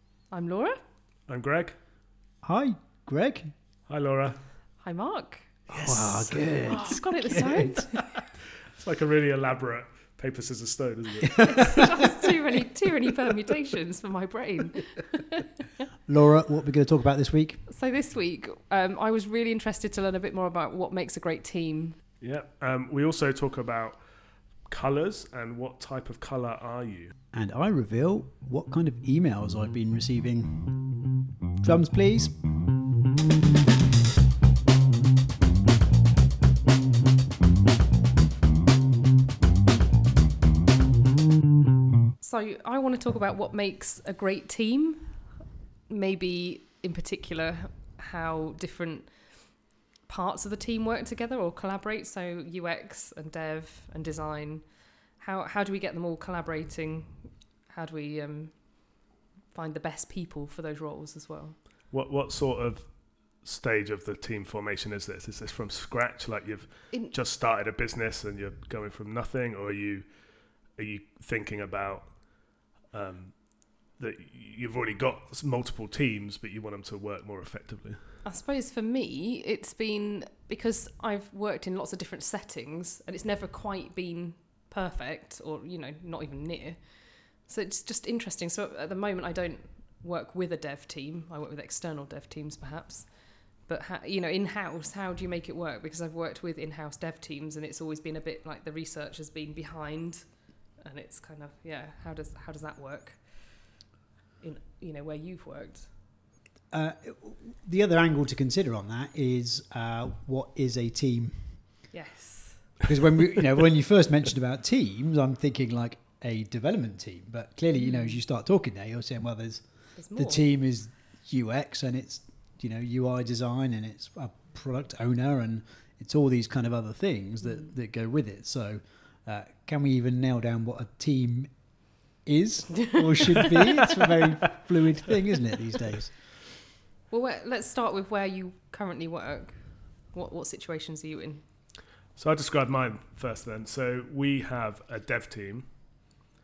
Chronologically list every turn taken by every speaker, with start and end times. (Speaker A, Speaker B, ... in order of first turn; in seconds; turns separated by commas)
Speaker A: 0.3-0.8, Speaker B: 1.3-1.8, Speaker C: 2.4-3.5, Speaker B: 3.9-4.5, Speaker A: 4.8-5.7, Speaker B: 5.7-6.8, Speaker C: 5.7-8.0, Speaker A: 6.7-8.3, Speaker B: 8.2-12.0, Speaker C: 11.4-11.8, Speaker A: 11.5-15.9, Speaker C: 16.1-17.6, Speaker A: 17.7-22.0, Speaker B: 22.2-24.1, Speaker B: 24.6-27.1, Speaker C: 27.3-31.0, Speaker C: 31.6-32.5, Speaker A: 42.2-61.6, Speaker B: 61.9-78.2, Speaker A: 78.2-103.8, Speaker A: 104.4-105.9, Speaker C: 106.7-111.8, Speaker A: 111.9-112.8, Speaker C: 112.8-136.2, Speaker A: 117.7-118.2, Speaker A: 120.0-120.5, Speaker A: 127.4-127.7, Speaker A: 137.1-141.7, Speaker B: 142.1-146.2